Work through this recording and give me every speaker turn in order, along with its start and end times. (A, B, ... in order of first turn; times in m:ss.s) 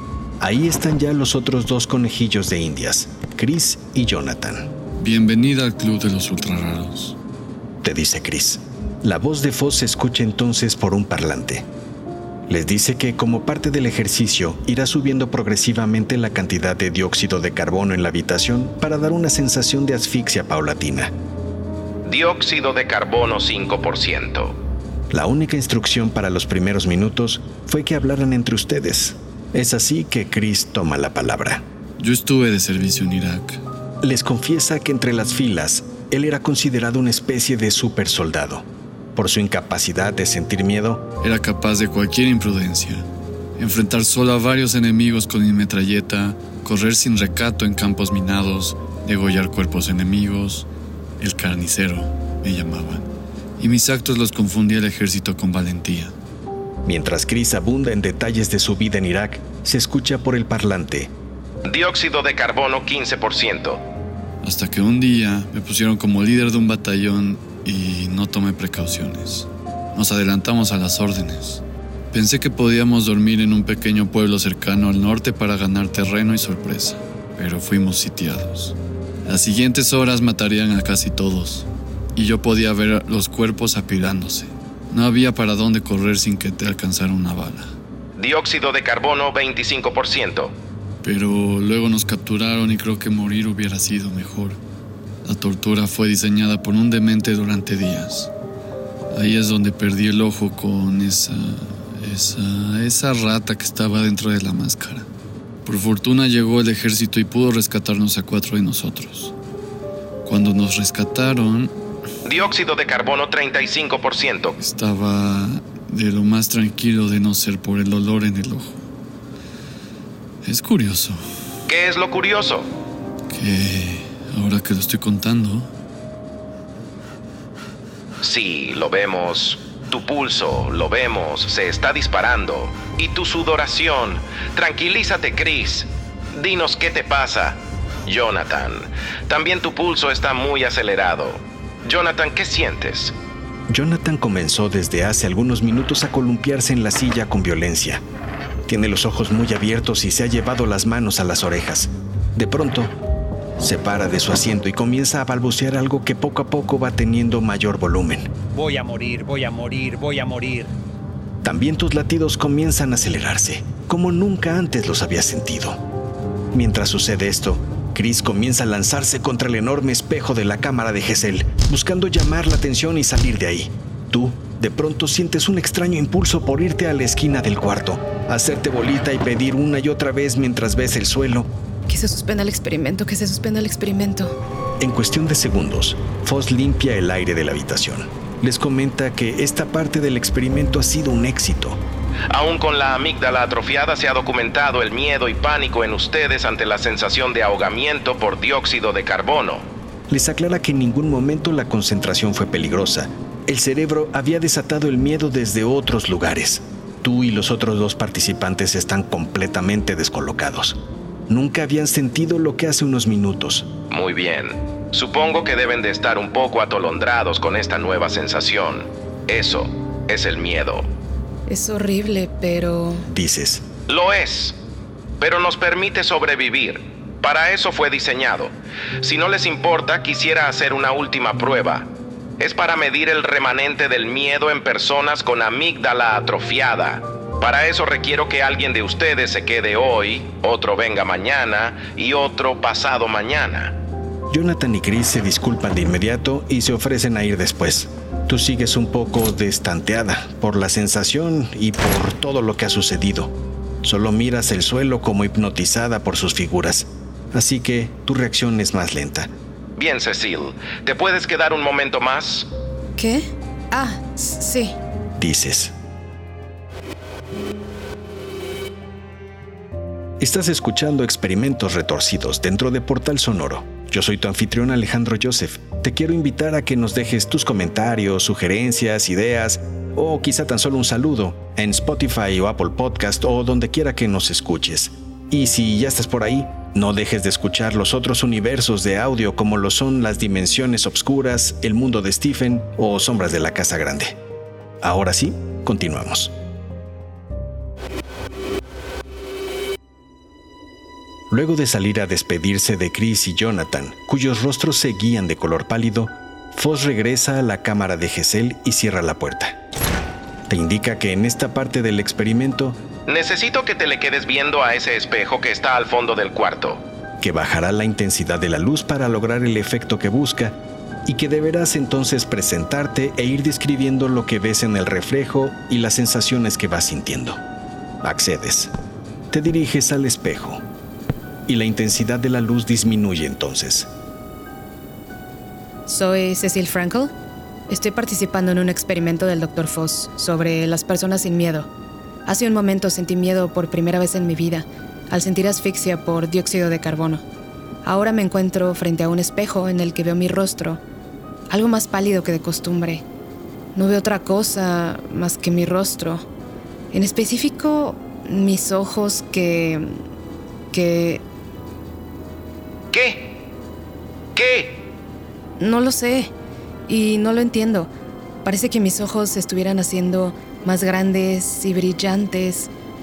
0:00.4-0:04.7 A
0:05.0-0:07.2 B
0:07.8-0:11.7 A
0:12.5-0:21.1 A
0:22.0-0:24.6 C
0:25.1-0:31.6 A
0:32.0-0:33.6 B
0:34.0-0:41.1 A
0:41.2-0:43.1 B
0:43.6-0:50.7 B
0:51.2-0:53.1 B
0:53.6-0:56.2 B
0:56.8-1:01.1 A
1:01.6-1:03.8 C
1:04.4-1:27.7 B
1:28.2-1:30.5 C
1:31.0-1:34.6 B
1:35.2-1:38.3 B
1:39.1-1:45.1 B
1:45.6-1:49.3 B
1:50.2-1:51.7 B
1:52.2-1:54.6 C
1:54.6-1:58.8 B
2:00.4-2:01.2 B
2:01.7-2:02.7 C
2:03.3-2:05.7 B
2:08.2-2:23.2 C
2:23.7-2:28.0 A
2:28.7-2:32.9 A
2:33.6-2:38.3 A
2:38.5-2:40.7 D
2:41.4-2:45.8 A
2:46.5-3:01.5 A
3:01.9-3:04.4 E
3:04.8-3:11.8 A
3:12.3-3:19.7 C
3:20.1-3:33.7 A
3:33.9-3:40.9 C
3:41.5-3:43.1 E
3:43.1-3:43.7 A
3:43.9-3:44.6 C
3:45.2-4:03.8 C
4:04.3-4:19.3 A
4:19.8-4:22.5 C
4:23.0-4:24.8 E
4:25.2-4:25.7 A
4:30.2-4:54.2 A
4:54.8-4:56.4 A
5:01.3-5:09.6 A
5:10.5-5:12.8 A
5:13.1-5:16.8 C
5:17.2-5:27.4 A
5:28.0-5:28.7 A
5:29.3-5:30.6 A
5:31.5-5:33.9 A
5:35.9-5:37.1 E
5:37.7-5:41.7 E
5:42.3-5:47.2 E
5:47.8-5:50.8 E
5:51.5-5:53.0 E
5:53.8-5:56.3 E
5:56.9-6:00.0 E
6:00.7-6:01.2 E
6:02.9-6:03.3 C
6:04.4-6:04.8 C
6:05.6-6:06.3 E
6:06.9-6:07.9 E
6:08.4-6:12.7 E